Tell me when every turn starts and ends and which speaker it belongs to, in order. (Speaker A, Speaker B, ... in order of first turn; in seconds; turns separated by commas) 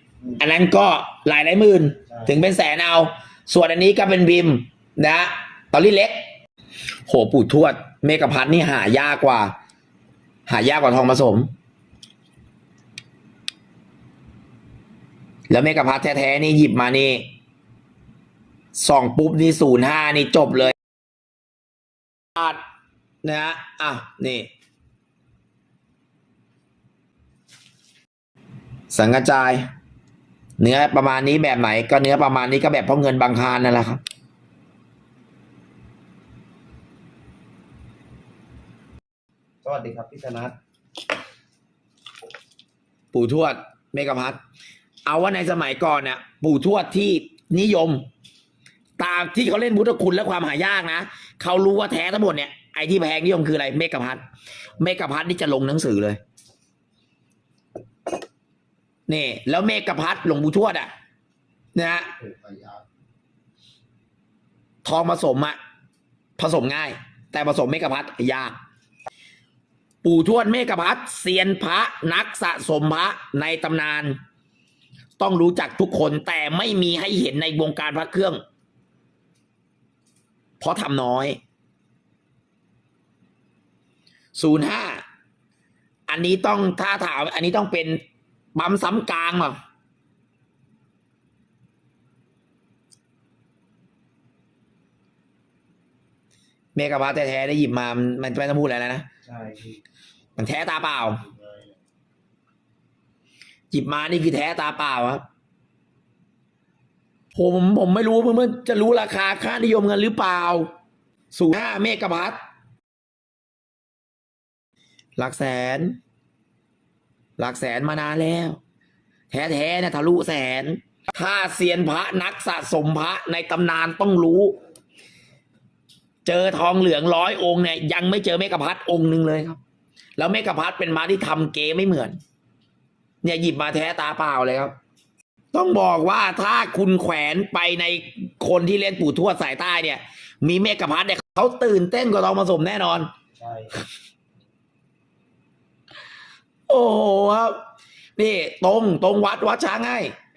Speaker A: 0.4-6.3, Speaker A: 7.1-9.5, Speaker A: 10.5-11.5, Speaker A: 15.5-17.3, Speaker A: 18.8-20.8, Speaker A: 23.2-24.5, Speaker A: 28.9-29.7, Speaker A: 30.6-34.0, Speaker B: 39.6-40.5, Speaker A: 43.1-44.4, Speaker A: 45.1-48.0, Speaker A: 49.0-54.2, Speaker A: 54.8-56.2, Speaker A: 59.1-60.9, Speaker A: 61.8-62.2, Speaker B: 62.2-62.8, Speaker A: 64.8-65.6, Speaker A: 66.4-68.6, Speaker A: 70.0-74.2, Speaker A: 75.2-78.4, Speaker A: 80.6-81.4, Speaker A: 84.4-85.0, Speaker A: 86.1-88.0, Speaker A: 88.5-89.6, Speaker A: 96.8-99.1, Speaker B: 99.3-99.8, Speaker A: 100.4-101.2, Speaker A: 103.7-105.2, Speaker A: 107.3-110.7, Speaker A: 111.3-112.4, Speaker A: 115.2-116.0, Speaker A: 117.4-118.6, Speaker A: 119.3-124.6, Speaker A: 126.2-129.6, Speaker A: 130.2-132.2, Speaker A: 133.2-134.7, Speaker A: 135.5-143.1, Speaker A: 146.7-147.6, Speaker A: 148.2-150.1